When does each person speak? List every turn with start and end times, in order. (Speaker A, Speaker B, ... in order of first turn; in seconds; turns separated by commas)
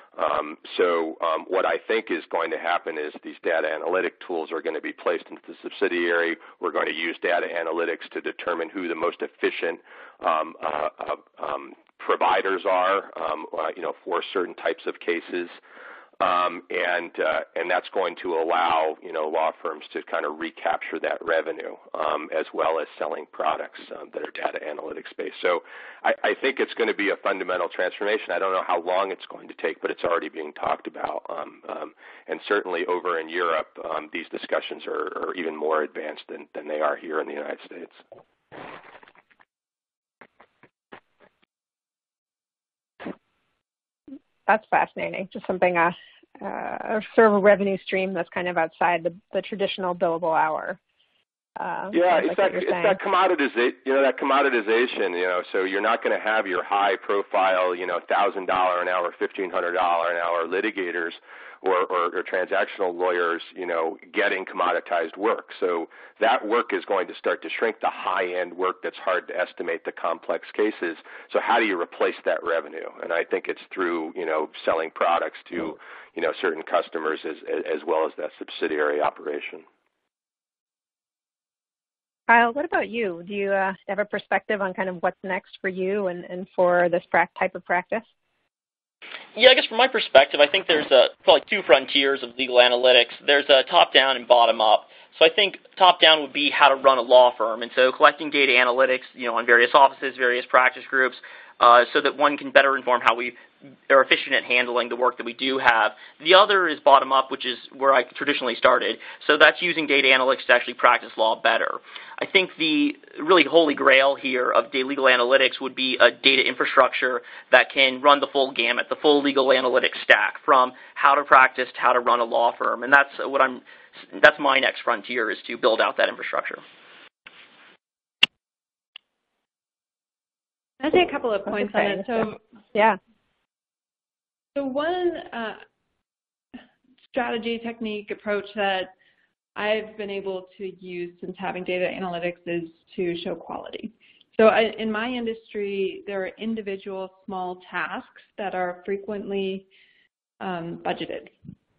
Speaker A: 0.2-15.6, Speaker A: 16.2-38.0, Speaker B: 44.5-50.8, Speaker B: 51.6-53.0, Speaker A: 51.9-79.7, Speaker B: 82.3-88.0, Speaker C: 89.3-103.4, Speaker C: 103.9-126.6, Speaker D: 130.8-132.4, Speaker B: 131.6-132.0, Speaker D: 134.6-135.6, Speaker D: 137.1-138.9, Speaker D: 139.6-149.7, Speaker D: 150.4-151.3